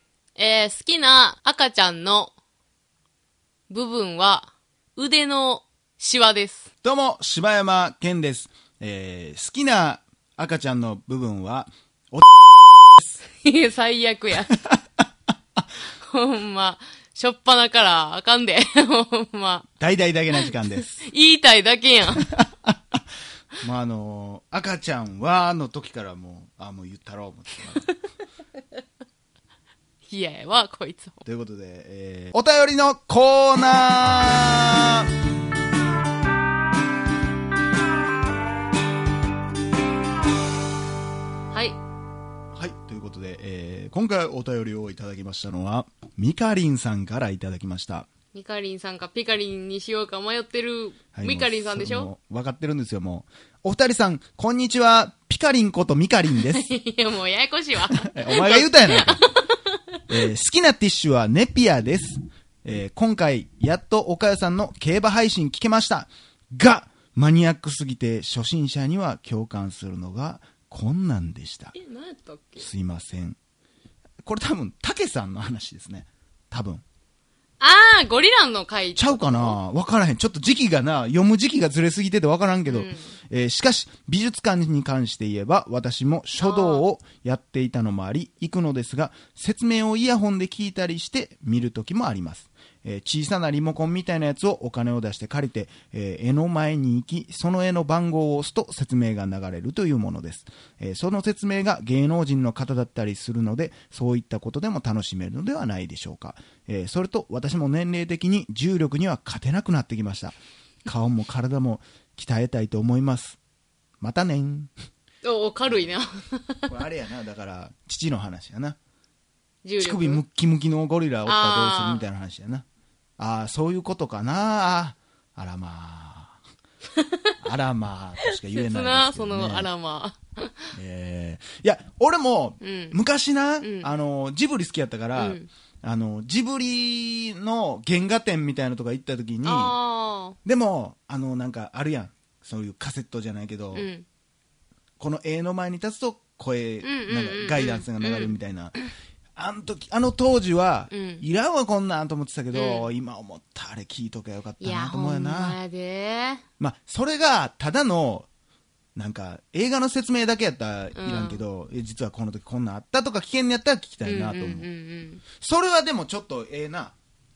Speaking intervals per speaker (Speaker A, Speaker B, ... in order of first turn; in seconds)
Speaker A: 0.3-2.3, 3.7-6.7, 13.3-14.7, 16.0-19.7, 20.3-22.3, 30.1-31.2, 41.5-41.8, 48.3-52.1, 56.4-59.5, 71.7-72.7, 77.6-79.6, 82.7-83.1, 86.4-86.8, 115.2-116.7, 119.6-120.2, 121.2-122.0, 128.3-130.7, 132.6-133.0, 133.6-133.9, 135.2-135.5, 139.4-140.4, 143.7-144.0, 146.8-148.3, 150.9-151.2, 152.5-152.9, 154.6-156.4, 160.9-161.4, 164.0-165.2
Speaker B: 6.8-13.2, 19.8-21.0, 22.2-22.7, 23.6-27.9, 31.2-35.1, 42.5-48.1, 51.1-56.7, 57.9-59.2, 60.1-71.7, 72.6-73.4, 74.2-76.8, 78.9-113.4, 114.0-114.7, 116.7-118.8, 119.8-122.6, 123.2-126.4, 127.4-129.7, 130.7-139.8, 140.4-143.9, 145.0-148.7, 149.3-155.6, 156.6-158.3, 158.9-164.7, 165.4-166.9